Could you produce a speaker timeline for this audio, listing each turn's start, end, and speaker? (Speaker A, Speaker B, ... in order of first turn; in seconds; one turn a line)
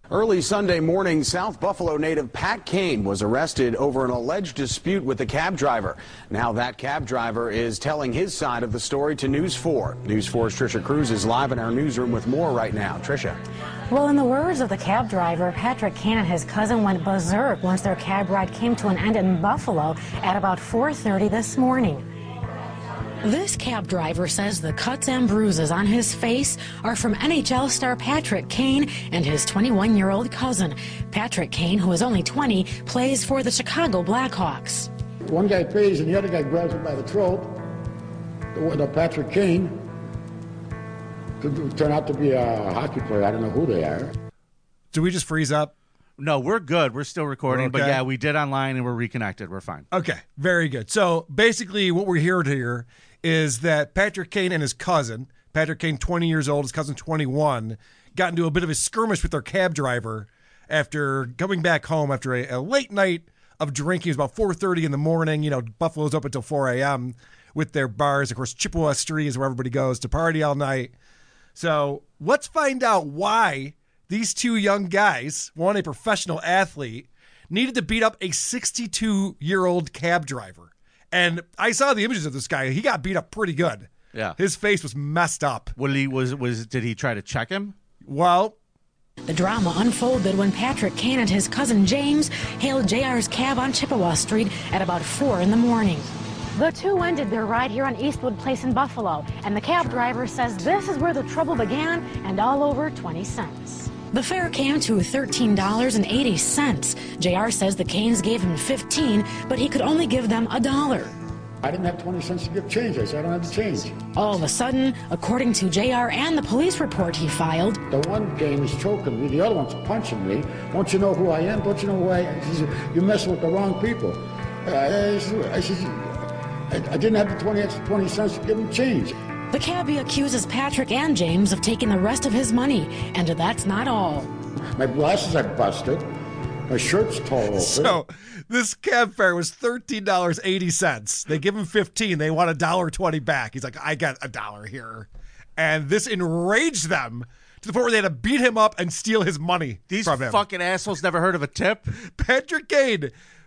Speaker A: 0.1-13.4
Speaker B: 13.9-22.1
Speaker B: 23.2-34.9
Speaker C: 35.3-37.6
Speaker C: 38.5-39.9
Speaker C: 41.4-44.1
Speaker D: 44.9-45.7
Speaker E: 46.2-49.9
Speaker D: 47.5-48.0
Speaker D: 49.9-70.9
Speaker D: 71.6-85.7
Speaker E: 85.8-87.8
Speaker D: 88.0-88.6
Speaker B: 89.3-111.1
Speaker C: 111.6-114.1
Speaker B: 114.2-117.8
Speaker C: 117.9-126.2
Speaker C: 126.7-129.1
Speaker B: 129.5-134.3
Speaker C: 134.8-136.1
Speaker C: 136.7-138.0
Speaker D: 137.6-150.4
Speaker E: 149.9-151.9
Speaker D: 151.9-153.1